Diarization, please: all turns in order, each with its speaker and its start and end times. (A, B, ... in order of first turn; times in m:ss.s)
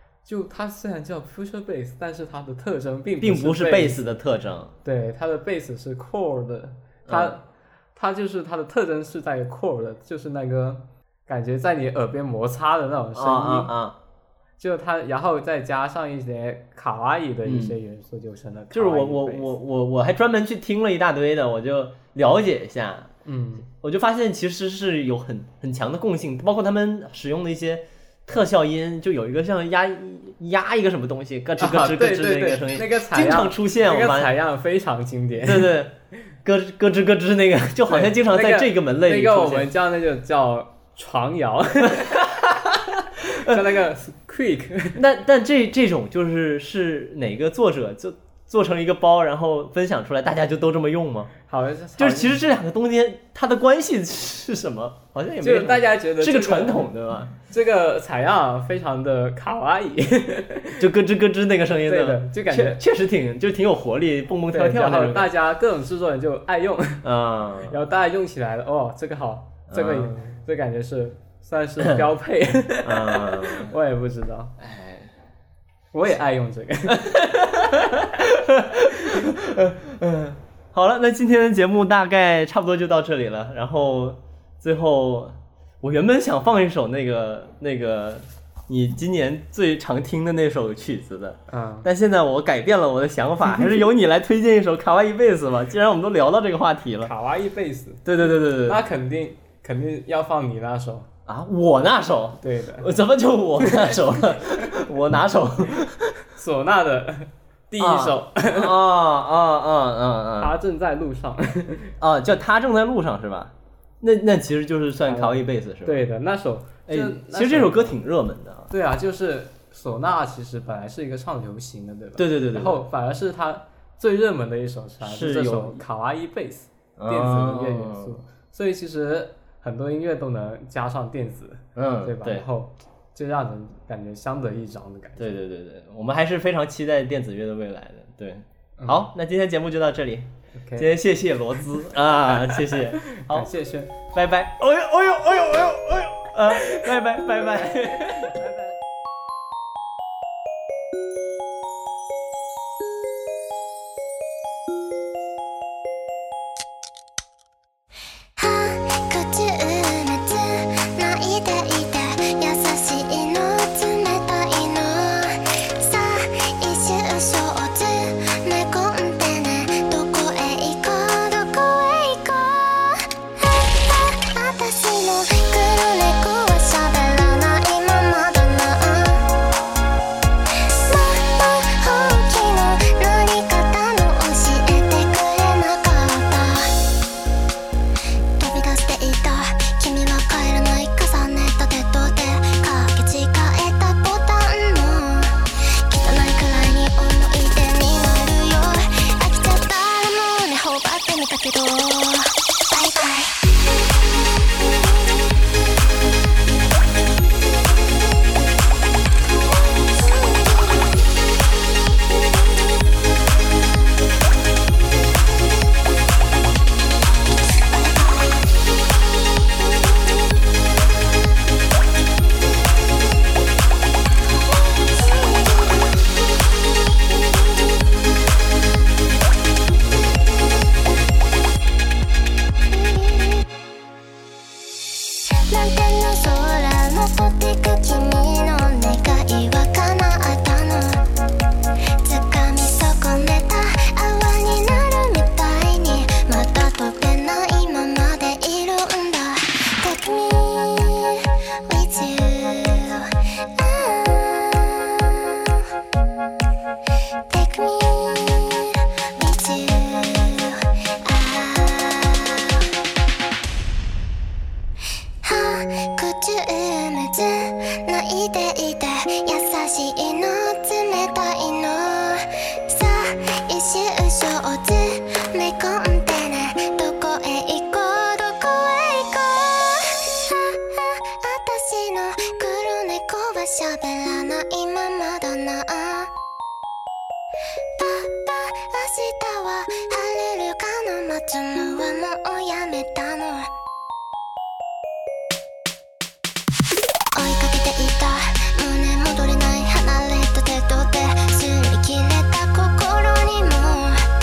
0:00.2-0:04.1 A
0:03.2-0:04.7 B
0:04.8-0:13.7 A
0:07.1-0:07.3 B
0:13.2-0:14.0 B
0:14.6-0:19.5 A
0:17.4-0:17.7 B
0:18.7-0:23.1 B
0:23.2-0:23.7 A
0:23.7-0:34.3 B
0:31.6-0:35.7 A
0:35.4-0:39.7 B
0:37.9-0:42.4 A
0:42.0-0:42.7 B
0:43.2-0:45.0 A
0:43.3-0:43.6 B
0:45.0-0:51.3 B
0:51.5-0:52.4 A
0:52.0-0:57.3 B
0:55.4-1:00.9 A
1:00.8-1:05.3 B
1:01.8-1:02.8 A
1:04.5-1:07.1 A
1:07.0-1:07.8 B
1:07.6-1:14.6 A
1:09.7-1:10.3 B
1:12.8-1:13.7 B
1:14.6-1:15.1 B
1:15.9-1:18.2 A
1:17.7-1:37.1 B
1:18.9-1:19.4 A
1:31.5-1:31.9 A
1:37.0-1:41.1 A
1:38.0-1:38.8 B
1:41.2-1:46.2 B
1:42.4-1:42.9 A
1:43.6-1:44.7 A
1:46.4-1:48.7 A
1:47.8-1:50.6 B
1:50.4-1:51.9 A
1:52.0-1:56.0 B
1:55.0-1:58.0 A
1:56.9-1:58.7 B
1:58.7-2:15.4 A
2:02.2-2:02.8 B
2:05.0-2:05.8 B
2:07.0-2:08.2 B
2:11.8-2:12.4 B
2:15.2-2:23.5 B
2:18.8-2:19.1 A
2:20.6-2:20.9 A
2:22.3-2:23.9 A
2:24.1-2:28.4 B
2:27.7-2:28.5 A
2:38.4-2:59.3 C
3:00.7-3:06.7 C
3:08.4-3:23.4 C
3:29.8-3:30.9 C
3:37.7-3:38.4 C
3:44.8-3:45.8 C
3:52.7-3:53.5 C
3:55.3-4:01.0 C
4:02.0-4:15.6 C
4:17.3-4:22.6 C
4:25.2-4:46.1 C
4:47.8-4:53.5 C
4:57.1-5:04.1 C